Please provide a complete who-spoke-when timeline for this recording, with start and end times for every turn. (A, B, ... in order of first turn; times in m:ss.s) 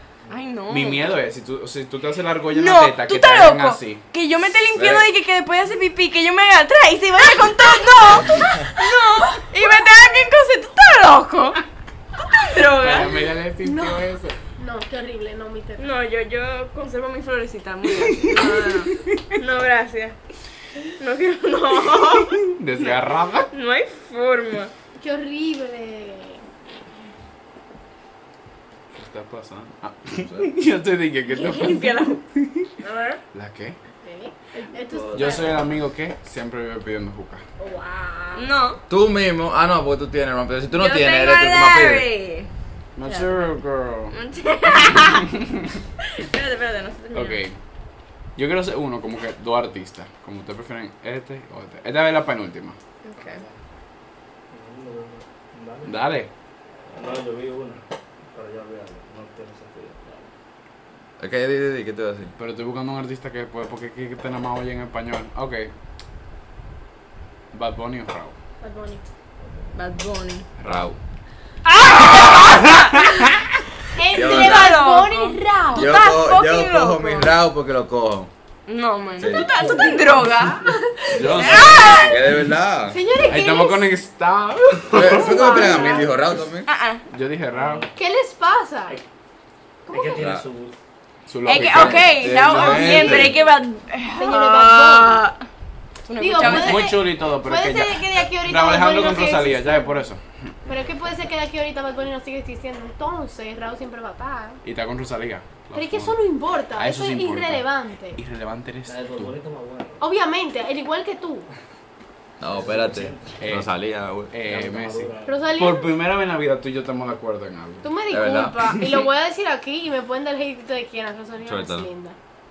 0:00.3-0:01.1 A
0:00.7-0:04.0 B
0:02.5-0:11.6 A
0:04.7-0:05.1 C
0:12.2-0:13.2 A
0:12.8-0:14.4 B
0:13.6-0:14.0 D
0:14.6-0:15.8 D
0:15.8-0:20.2 A
0:18.1-0:19.3 B
0:21.0-0:22.9 A
0:22.4-0:23.5 B
0:23.5-0:24.7 A
0:25.0-0:26.4 D
0:28.9-0:32.8 B
0:30.2-0:30.5 C
0:31.3-0:32.2 A
0:32.8-0:33.2 D
0:33.3-0:33.8 B
0:34.0-0:35.6 D
0:34.9-0:35.4 E
0:35.1-0:37.4 B
0:37.6-0:38.5 D
0:38.4-0:38.8 A
0:38.9-0:42.1 C
0:40.7-0:42.5 A
0:43.0-0:44.2 B
0:43.0-0:43.4 A
0:44.1-0:45.3 A
0:45.2-0:45.7 B
0:46.0-0:47.4 A
0:47.1-0:47.6 B
0:48.4-0:52.8 B
0:53.0-0:53.4 A
0:53.2-0:53.5 E
0:54.5-0:56.0 E
0:55.8-0:56.3 B
0:56.9-1:00.3 E
1:01.2-1:02.3 C
1:02.4-1:05.7 B
1:07.5-1:08.4 B
1:08.6-1:09.1 D
1:09.7-1:10.5 A
1:10.6-1:11.0 B
1:10.6-1:11.0 C
1:11.7-1:13.1 A
1:12.6-1:13.5 B
1:14.0-1:15.9 D
1:14.1-1:14.8 C
1:14.2-1:17.3 A
1:15.7-1:18.3 C
1:18.7-1:22.2 A
1:19.2-1:19.5 C
1:19.4-1:20.5 E
1:19.6-1:21.8 D
1:21.1-1:22.2 B
1:21.3-1:22.0 E
1:22.0-1:23.0 C
1:22.9-1:23.9 D
1:23.2-1:25.7 B
1:24.9-1:26.7 C
1:25.0-1:26.3 D
1:25.7-1:26.1 E
1:26.7-1:27.0 A
1:27.1-1:27.8 B
1:27.5-1:28.0 E
1:28.0-1:29.0 D
1:29.9-1:30.8 E
1:29.9-1:30.2 D
1:30.2-1:30.4 C
1:31.3-1:33.2 B
1:31.4-1:35.5 A
1:31.5-1:33.4 C
1:34.2-1:35.2 D
1:36.1-1:37.0 A
1:36.2-1:40.0 D
1:36.4-1:40.5 B
1:40.7-1:41.2 E
1:40.7-1:44.6 D
1:44.6-1:46.2 B
1:45.7-1:48.2 D
1:46.8-1:49.4 B
1:48.8-1:50.0 E
1:50.0-1:51.5 D
1:52.4-1:54.3 C
1:52.4-1:53.4 E
1:53.4-1:53.7 B
1:54.3-1:57.9 B
1:54.4-1:55.6 E
1:55.2-1:55.9 D
1:57.8-2:02.2 D
1:58.1-1:58.6 C
2:01.4-2:01.9 C